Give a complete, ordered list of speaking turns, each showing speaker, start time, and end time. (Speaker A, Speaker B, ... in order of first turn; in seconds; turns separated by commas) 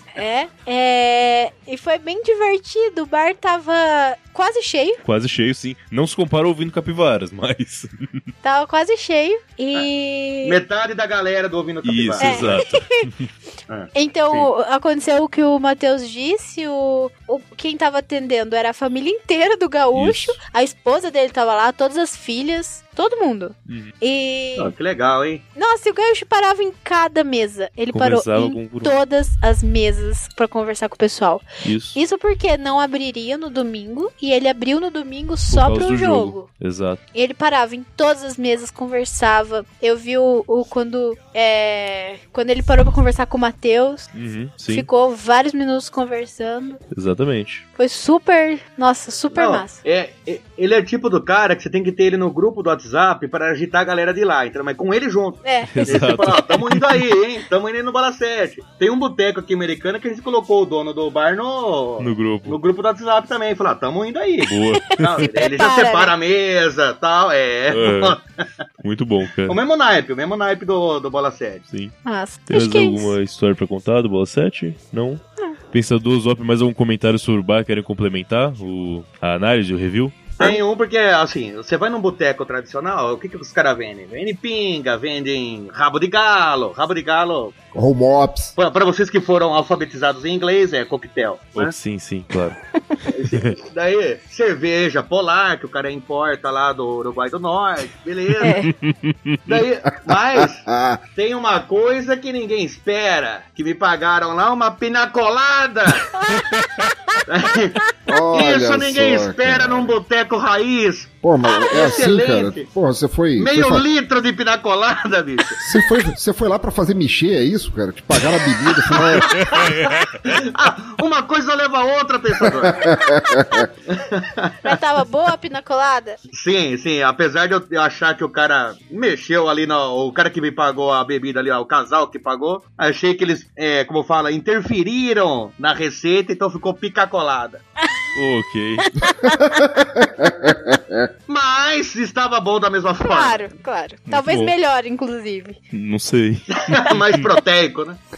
Speaker A: 0.1-5.0, Speaker B: 5.0-7.9, Speaker A: 8.4-10.6, Speaker C: 10.4-12.6, Speaker B: 11.8-13.3, Speaker A: 12.2-13.1, Speaker C: 13.7-14.5, Speaker A: 13.9-24.7, Speaker B: 19.9-20.4, Speaker B: 23.7-23.9, Speaker C: 24.6-25.4, Speaker A: 25.6-31.4, Speaker B: 27.9-29.0, Speaker B: 31.6-32.0, Speaker A: 31.9-36.5, Speaker B: 35.5-37.0, Speaker A: 37.1-44.1, Speaker B: 44.1-44.9, Speaker A: 44.7-46.8, Speaker B: 46.9-47.6, Speaker A: 47.8-49.8, Speaker C: 49.3-68.2, Speaker A: 55.4-55.9, Speaker B: 55.7-56.8, Speaker B: 62.0-62.6, Speaker B: 64.5-65.1, Speaker A: 65.4-66.1, Speaker B: 67.7-68.2, Speaker B: 68.8-69.6, Speaker C: 69.5-71.7, Speaker B: 71.7-71.9, Speaker A: 72.0-73.2, Speaker B: 72.5-80.3, Speaker C: 80.4-87.5, Speaker D: 87.7-88.5, Speaker C: 88.6-91.7, Speaker B: 91.5-92.6, Speaker C: 93.1-98.6, Speaker A: 98.4-98.7, Speaker B: 98.6-99.5, Speaker C: 99.5-106.1, Speaker D: 100.1-101.0, Speaker A: 106.2-107.2, Speaker C: 107.3-107.8, Speaker D: 108.1-110.0, Speaker C: 108.3-112.7, Speaker D: 111.2-113.8, Speaker A: 111.5-112.0, Speaker C: 113.4-115.6, Speaker D: 115.6-119.3, Speaker C: 119.0-122.8, Speaker B: 119.3-120.2, Speaker D: 122.4-123.7, Speaker C: 123.9-124.5, Speaker A: 124.6-126.2, Speaker C: 126.3-137.6, Speaker B: 138.2-138.9, Speaker A: 138.9-139.3, Speaker D: 139.0-141.1, Speaker C: 141.3-143.5, Speaker A: 143.0-145.6, Speaker B: 144.1-144.5, Speaker B: 145.7-147.3, Speaker C: 146.7-148.0